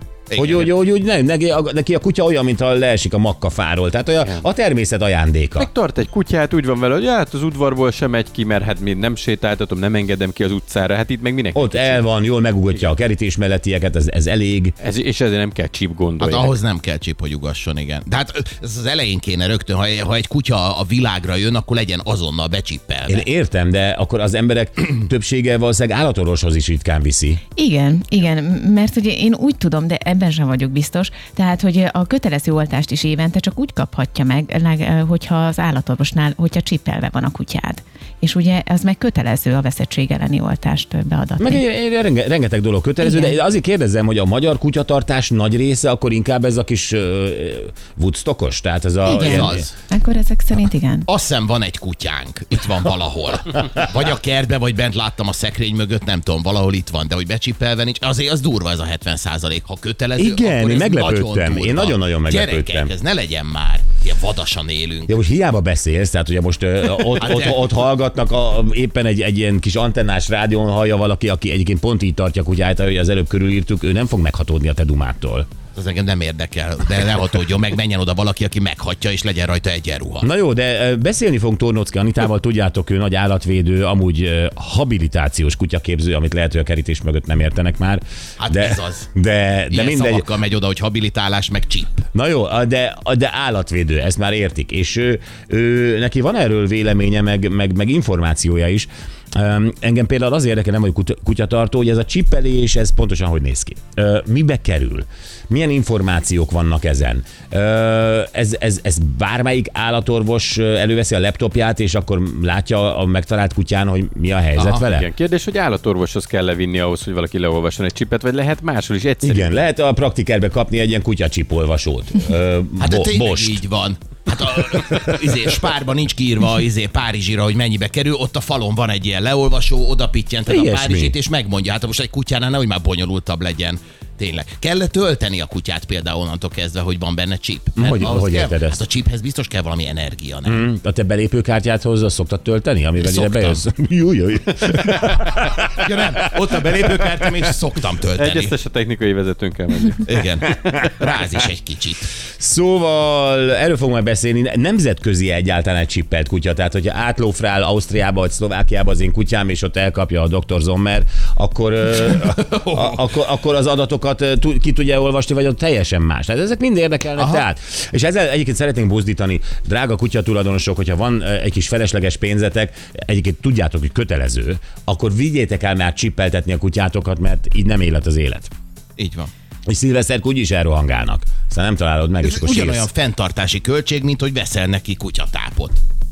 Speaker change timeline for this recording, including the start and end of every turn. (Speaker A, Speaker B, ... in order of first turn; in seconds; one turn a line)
Speaker A: 0.3-0.7
Speaker B: 0.3-5.7
Speaker C: 5.6-12.0
Speaker B: 11.5-14.8
Speaker C: 14.8-16.6
Speaker A: 16.2-23.2
Speaker B: 23.1-27.4
Speaker D: 27.6-41.6
Speaker B: 41.4-49.7
Speaker D: 43.0-43.4
Speaker D: 49.0-51.1
Speaker A: 49.1-49.7
Speaker A: 51.1-65.2
Speaker B: 60.1-62.9
Speaker B: 65.1-75.5
Speaker A: 67.1-67.7
Speaker A: 75.7-80.3
Speaker B: 80.2-90.3
Speaker A: 88.4-89.1
Speaker A: 89.7-92.0
Speaker B: 92.1-115.1
Speaker A: 114.5-114.8
Speaker C: 114.8-119.6
Speaker B: 119.2-123.6
Speaker A: 122.8-140.7
Speaker B: 130.5-131.1
Speaker B: 137.8-138.8
Speaker B: 140.4-146.2
Speaker A: 143.0-143.6
Speaker A: 145.8-148.6
Speaker C: 148.1-150.1
Speaker A: 150.1-152.1
Speaker B: 152.4-178.5
Speaker A: 162.4-163.0
Speaker A: 167.2-167.4
Speaker A: 179.0-179.3
Speaker B: 179.7-182.9
Speaker A: 182.2-185.8